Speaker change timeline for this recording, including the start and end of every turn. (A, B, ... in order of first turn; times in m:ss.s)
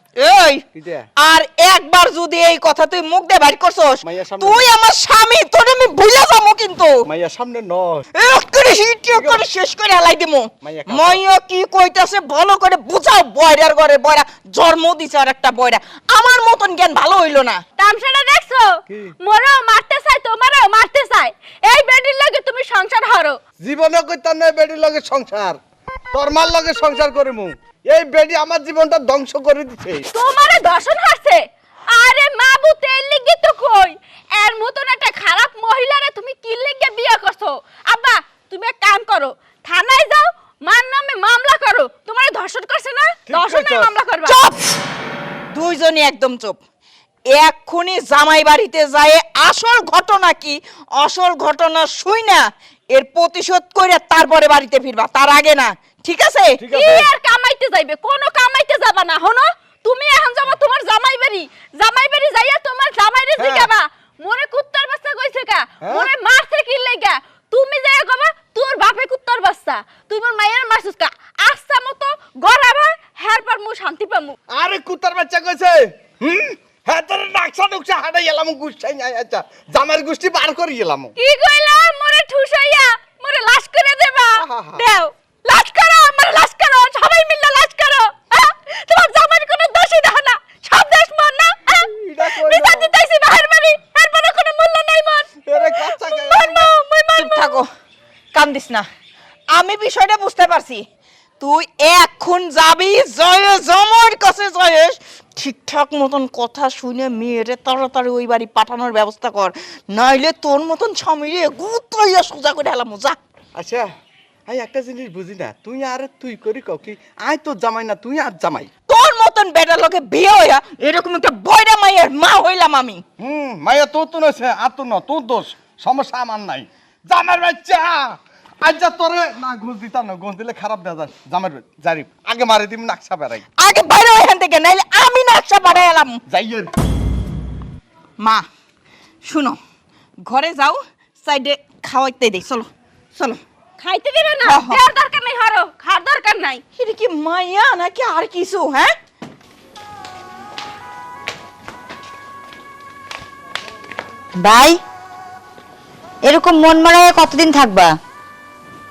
0:00.2-0:00.6 A
0:00.7-0:01.1 B
0:01.2-0:07.0 A
0:04.0-0:04.7 B
0:07.1-0:08.1 B
0:08.2-0:17.6 A
0:09.1-0:09.4 B
0:10.6-0:11.2 B
0:17.8-0:23.4 C
0:23.6-0:25.6 B
0:26.1-0:30.1 B
0:30.1-0:44.4 C
0:43.3-0:43.9 B
0:44.3-0:44.6 A
0:45.5-0:46.6 A
0:47.3-0:56.6 A
0:56.6-0:57.1 B
0:56.7-1:14.4 C
1:03.4-1:03.7 B
1:05.8-1:06.1 B
1:14.5-1:21.1 B
1:21.2-1:37.6 C
1:24.4-1:24.8 B
1:31.8-1:32.9 B
1:35.4-1:36.7 B
1:37.2-1:37.7 A
1:38.3-1:38.9 A
1:39.5-1:40.8 A
1:41.4-1:53.2 A
1:53.6-1:53.9 B
1:54.5-1:58.7 B
1:58.9-2:03.0 A
2:03.2-2:13.4 B
2:13.6-2:16.2 A
2:16.3-2:16.7 B
2:18.2-2:18.5 A
2:19.2-2:19.6 A
2:20.2-2:23.4 A
2:23.8-2:26.6 C
2:24.4-2:24.8 A
2:26.8-2:28.9 A
2:34.4-2:34.8 D
2:36.2-2:38.0 D